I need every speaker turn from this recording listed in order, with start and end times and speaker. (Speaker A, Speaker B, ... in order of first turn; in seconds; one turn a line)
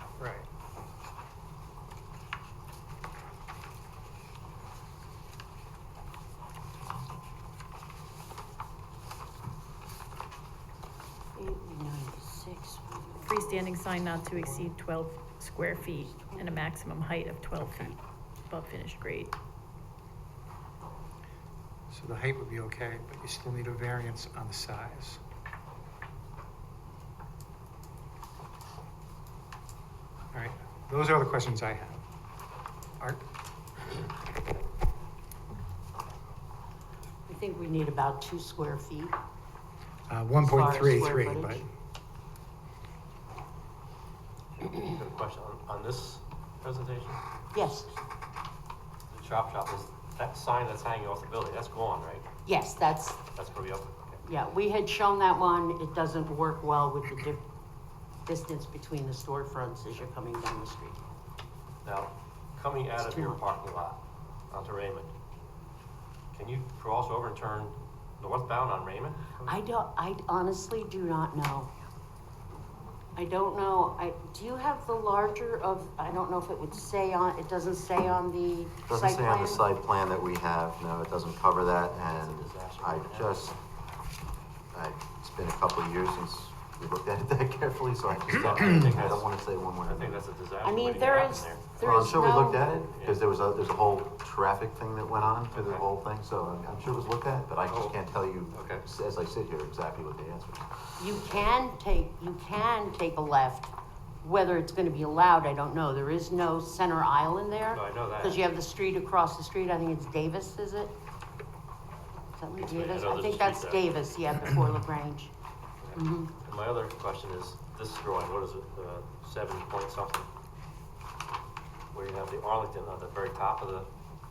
Speaker A: 0.2-0.5
Speaker B: 11.4-13.7
Speaker C: 13.2-19.3
Speaker B: 15.8-16.7
Speaker A: 17.6-17.9
Speaker A: 21.9-25.2
Speaker A: 30.3-32.0
Speaker B: 37.3-39.2
Speaker A: 40.1-41.6
Speaker B: 40.4-41.7
Speaker D: 44.6-47.2
Speaker B: 47.5-47.9
Speaker D: 49.1-52.3
Speaker B: 52.5-53.2
Speaker D: 53.3-54.2
Speaker B: 54.2-57.4
Speaker B: 58.3-61.0
Speaker D: 61.8-65.1
Speaker B: 63.0-63.4
Speaker D: 66.3-69.6
Speaker B: 69.5-71.7
Speaker B: 73.2-79.7
Speaker E: 78.9-83.6
Speaker D: 82.1-83.5
Speaker E: 84.7-90.2
Speaker D: 88.3-89.3
Speaker D: 89.8-91.7
Speaker B: 90.6-92.7
Speaker E: 91.8-101.5
Speaker D: 92.9-93.2
Speaker D: 95.5-95.9
Speaker D: 97.6-98.0
Speaker D: 98.5-98.8
Speaker B: 101.0-111.0
Speaker D: 107.7-108.5
Speaker B: 112.4-115.3
Speaker D: 112.5-113.8
Speaker D: 115.8-120.3
Speaker B: 116.0-116.3
Speaker D: 121.9-123.9